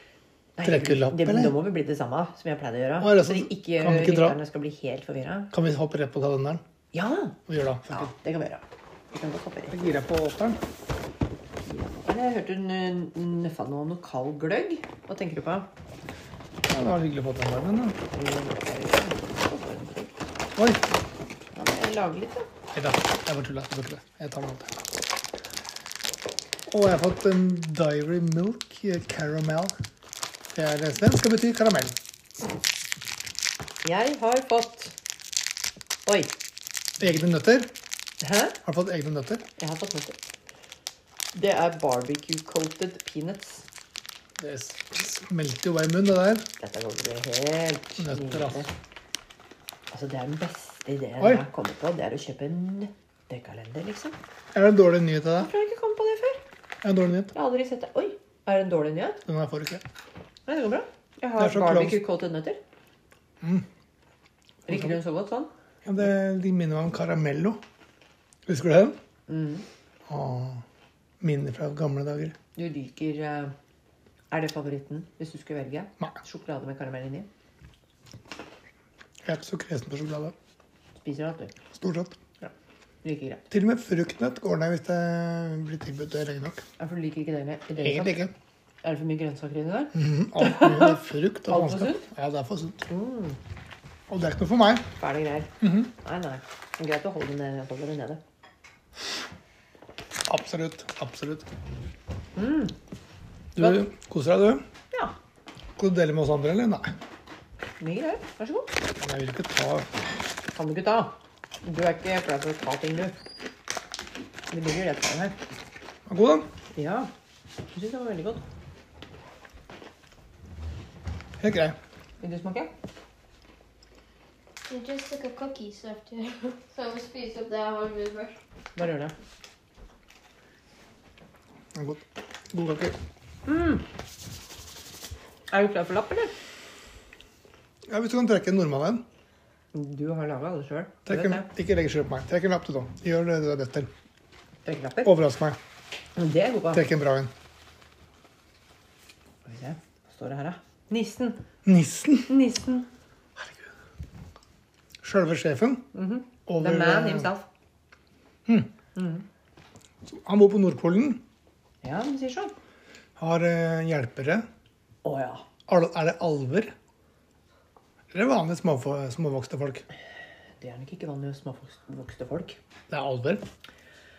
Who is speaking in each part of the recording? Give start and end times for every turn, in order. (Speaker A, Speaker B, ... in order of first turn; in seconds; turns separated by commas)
Speaker A: 0.6-5.5, Speaker B: 0.6-1.6, Speaker B: 3.0-4.4, Speaker B: 5.5-6.6, Speaker A: 6.9-10.0, Speaker B: 7.5-8.1, Speaker B: 9.7-10.6, Speaker A: 11.7-15.7, Speaker B: 16.7-18.0, Speaker A: 18.1-20.1, Speaker B: 20.6-20.8, Speaker A: 21.5-22.5, Speaker B: 22.7-24.8, Speaker B: 26.7-29.8, Speaker B: 30.5-32.0, Speaker A: 33.8-34.9, Speaker A: 36.1-36.3, Speaker B: 37.0-37.7, Speaker A: 38.2-38.6, Speaker B: 38.6-39.5, Speaker A: 39.6-40.2, Speaker A: 41.3-43.7, Speaker B: 44.4-46.5, Speaker A: 46.6-48.7, Speaker B: 48.0-48.7, Speaker A: 49.9-54.2, Speaker B: 54.5-55.5, Speaker A: 55.4-56.4, Speaker B: 56.8-57.3, Speaker A: 57.3-59.2, Speaker B: 59.2-59.8, Speaker A: 60.5-62.6, Speaker B: 61.4-62.0, Speaker B: 63.4-63.7, Speaker A: 64.7-65.5, Speaker B: 64.7-65.0, Speaker B: 65.8-67.6, Speaker B: 68.5-69.0, Speaker A: 69.3-69.7, Speaker B: 70.1-70.6, Speaker B: 71.2-72.3, Speaker A: 72.6-73.5, Speaker A: 74.3-77.3, Speaker B: 79.2-80.3, Speaker A: 81.0-81.5, Speaker B: 81.7-82.2, Speaker A: 82.4-83.5, Speaker B: 83.5-86.6, Speaker A: 86.8-88.2, Speaker B: 87.8-88.3, Speaker A: 88.8-92.1, Speaker B: 89.9-92.9, Speaker A: 92.9-93.4, Speaker B: 94.1-94.9, Speaker A: 95.0-98.2, Speaker B: 95.6-95.9, Speaker B: 100.3-101.5, Speaker A: 102.4-102.7, Speaker B: 103.6-104.6, Speaker B: 105.8-107.0, Speaker A: 107.8-108.7, Speaker B: 109.0-109.9, Speaker A: 110.5-113.2, Speaker A: 114.5-115.4, Speaker B: 116.1-116.5, Speaker A: 116.7-117.1, Speaker A: 117.7-118.4, Speaker B: 121.4-121.8, Speaker A: 122.2-122.7, Speaker C: 124.7-128.4, Speaker A: 128.8-129.1, Speaker B: 131.7-133.0, Speaker A: 133.5-133.8, Speaker A: 135.5-136.3, Speaker B: 137.9-139.0, Speaker A: 139.7-141.5, Speaker B: 141.1-143.9, Speaker A: 144.7-145.1, Speaker B: 145.0-145.6, Speaker A: 146.2-146.9, Speaker B: 146.7-147.3, Speaker A: 149.4-151.4, Speaker B: 151.7-152.3, Speaker A: 152.3-152.9, Speaker B: 153.4-153.7, Speaker B: 155.0-155.9, Speaker A: 155.9-157.5, Speaker B: 156.5-157.3, Speaker A: 158.9-159.2, Speaker B: 160.1-161.2, Speaker A: 161.8-162.5, Speaker B: 163.2-164.4, Speaker A: 165.0-165.4, Speaker B: 165.7-166.7, Speaker B: 168.1-169.8, Speaker A: 170.6-172.6, Speaker B: 172.9-173.4